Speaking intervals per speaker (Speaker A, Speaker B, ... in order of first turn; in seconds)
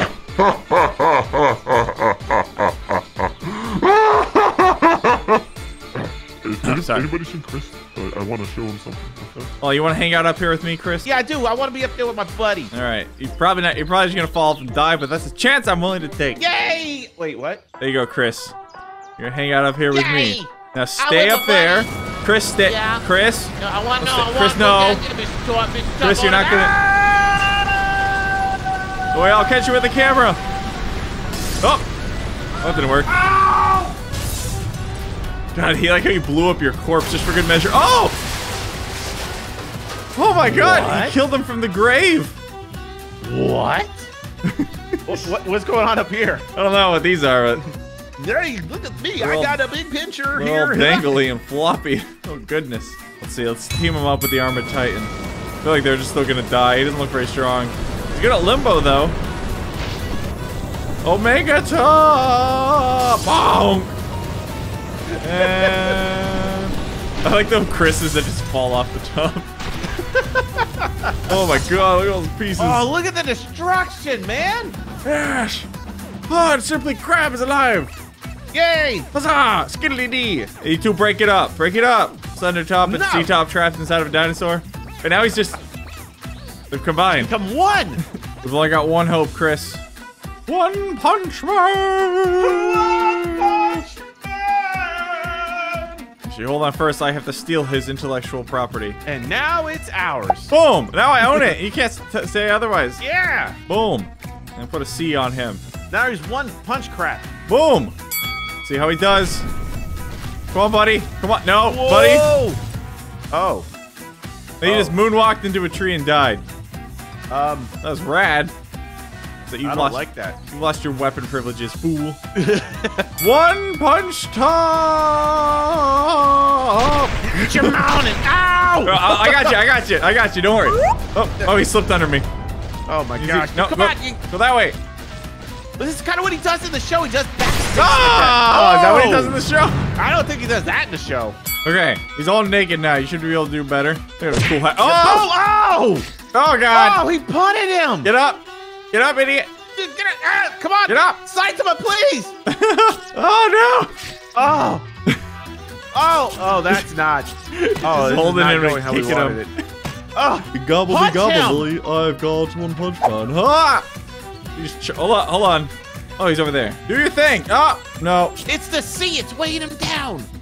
Speaker A: 0.4-2.6, 3.2-5.4, 6.4-9.5
Speaker B: 6.6-7.1, 9.6-11.1, 12.7-16.4, 17.8-18.5, 19.2-25.0, 26.0-26.8, 29.1-30.4, 31.6-31.9, 32.6-33.1, 35.5-38.2, 40.1-42.4, 44.4-45.3, 46.5-47.6, 49.2-49.6, 50.3-55.1, 55.6-59.1, 61.0-63.9, 65.2-69.5, 71.3-72.9, 75.0-75.7, 76.3-77.9, 79.1-85.5, 86.7-87.3, 88.4-89.8, 90.5-93.8, 96.2-99.0, 100.5-103.0, 103.7-105.6, 107.5-107.9, 108.6-109.5, 110.5-112.3, 114.6-116.4, 117.8-118.5, 119.5-122.2, 123.2-127.9, 128.8-132.2, 133.2-134.8, 137.8-139.8, 141.6-145.3, 146.3-147.0, 148.0-149.5, 150.9-151.2, 152.4-153.9, 157.5-159.5, 160.5-163.8, 164.6-168.4
Speaker C: 11.0-12.7, 16.4-17.6, 19.9-21.9, 22.6-23.0, 23.6-28.7, 33.0-34.0, 40.4-41.1, 43.2-44.1, 45.0-46.4, 48.2-51.1, 65.1-66.0, 70.0-71.2, 72.5-74.8, 78.5-79.1, 82.8-83.3, 87.2-88.0, 92.4-96.0, 99.0-100.5, 103.0-103.6, 105.9-107.3, 111.6-112.6, 113.3-113.7, 114.6-114.9, 117.3-117.7, 119.6-120.4, 122.4-123.1, 127.2-129.5, 132.9-134.2, 135.8-139.4, 140.0-141.4, 144.8-146.1, 146.7-148.1, 149.8-152.3, 154.3-154.8, 155.9-157.3, 157.8-159.5, 160.1-161.7, 168.4-170.3